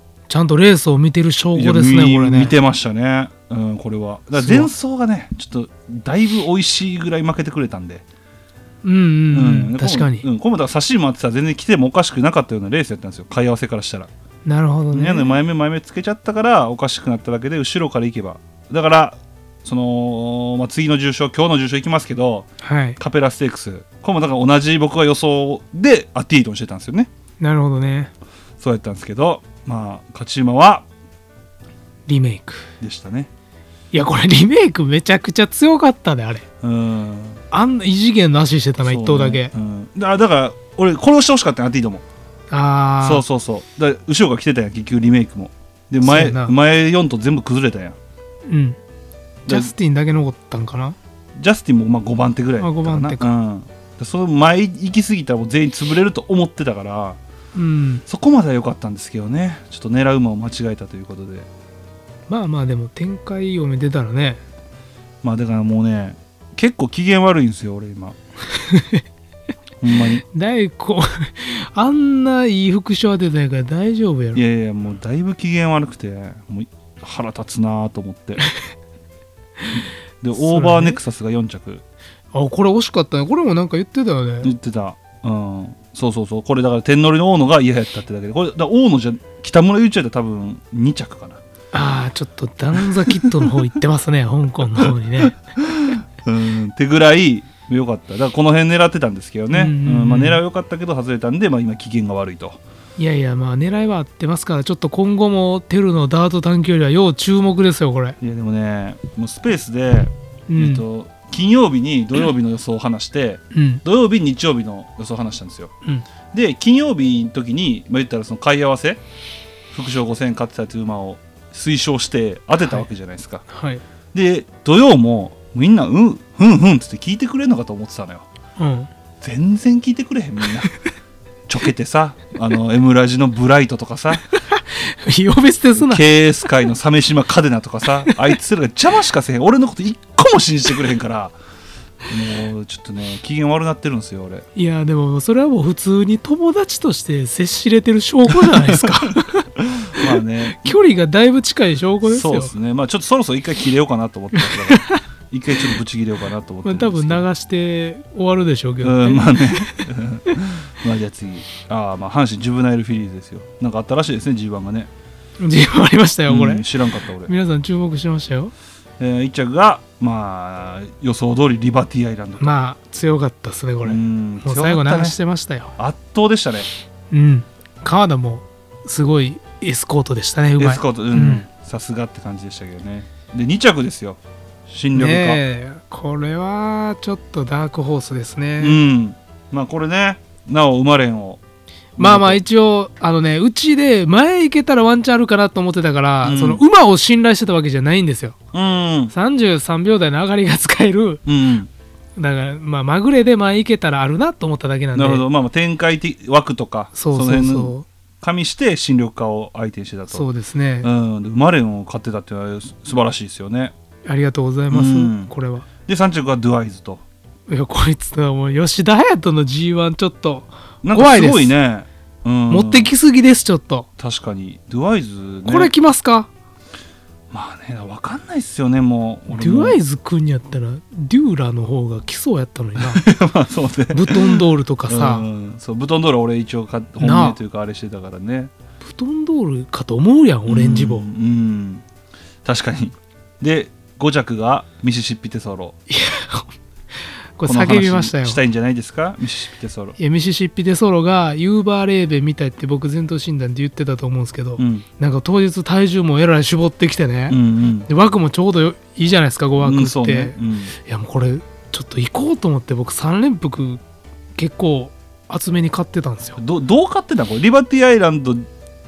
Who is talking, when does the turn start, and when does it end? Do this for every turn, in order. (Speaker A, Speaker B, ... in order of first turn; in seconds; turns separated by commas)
Speaker A: 0.3-2.5, Speaker B: 1.5-8.0, Speaker A: 4.3-4.7, Speaker A: 8.8-10.2, Speaker B: 9.3-14.1, Speaker A: 14.4-15.4, Speaker B: 14.9-27.1, Speaker A: 22.6-23.0, Speaker A: 27.4-28.1, Speaker B: 28.6-30.9, Speaker A: 32.1-32.6, Speaker B: 32.8-33.3, Speaker A: 33.9-36.4, Speaker B: 36.6-37.4, Speaker A: 37.5-39.5, Speaker B: 38.8-42.0, Speaker A: 42.5-43.2, Speaker B: 43.0-48.0, Speaker A: 46.0-46.5, Speaker A: 48.5-48.8, Speaker B: 49.5-49.7, Speaker A: 49.5-51.0, Speaker B: 51.4-57.2, Speaker A: 52.6-53.2, Speaker A: 57.5-58.0, Speaker B: 58.1-61.5, Speaker A: 62.3-64.4, Speaker B: 65.2-68.2, Speaker A: 68.5-69.0, Speaker B: 69.8-70.2, Speaker A: 70.3-74.4, Speaker B: 74.3-78.4, Speaker B: 79.8-81.8, Speaker A: 80.3-81.0, Speaker A: 82.3-84.5, Speaker B: 84.4-91.4, Speaker A: 91.7-95.4, Speaker B: 95.6-102.6, Speaker A: 99.5-100.4, Speaker A: 103.0-108.2, Speaker B: 108.2-115.7, Speaker A: 110.5-110.8, Speaker A: 113.5-113.8, Speaker B: 116.3-119.0, Speaker B: 119.7-123.4, Speaker A: 123.5-123.8, Speaker B: 124.1-128.2, Speaker A: 128.6-128.9, Speaker B: 129.2-130.7, Speaker B: 131.5-134.2, Speaker A: 134.3-136.0, Speaker B: 135.7-141.3, Speaker B: 142.1-144.4, Speaker A: 144.6-149.4, Speaker B: 148.4-148.9, Speaker B: 149.8-150.8, Speaker A: 150.4-152.5, Speaker B: 152.1-157.2, Speaker A: 154.4-155.0, Speaker A: 156.6-159.8, Speaker B: 158.8-164.9, Speaker A: 165.4-166.7, Speaker B: 166.3-167.3, Speaker A: 167.2-168.5, Speaker B: 169.0-172.5, Speaker A: 172.4-175.7, Speaker B: 173.8-175.2, Speaker B: 175.8-176.7, Speaker A: 177.1-181.4, Speaker B: 180.6-185.4, Speaker A: 184.9-188.8, Speaker B: 188.6-191.4, Speaker B: 192.0-192.4, Speaker A: 192.0-198.3, Speaker B: 196.2-196.6, Speaker B: 198.5-199.1, Speaker A: 199.1-201.2, Speaker B: 201.2-201.7, Speaker A: 202.2-205.2, Speaker B: 204.9-210.3, Speaker A: 206.9-207.8, Speaker A: 210.1-210.9, Speaker B: 210.8-213.7, Speaker A: 214.0-215.7, Speaker B: 214.7-215.3, Speaker B: 215.8-217.0, Speaker A: 217.5-221.5, Speaker B: 220.8-222.9, Speaker A: 222.5-223.9, Speaker B: 224.0-225.7, Speaker A: 225.4-226.3, Speaker B: 227.3-229.8, Speaker A: 229.3-233.0, Speaker B: 232.8-238.5, Speaker A: 233.9-235.3, Speaker A: 237.0-237.4, Speaker A: 238.8-241.1, Speaker B: 240.5-241.8, Speaker B: 242.4-245.8, Speaker A: 245.9-246.5, Speaker A: 247.4-248.4, Speaker B: 247.4-250.0, Speaker A: 250.0-260.3, Speaker B: 254.6-254.8, Speaker B: 257.3-257.9, Speaker B: 259.6-260.7, Speaker A: 260.9-263.8, Speaker A: 264.4-266.4, Speaker B: 266.4-268.4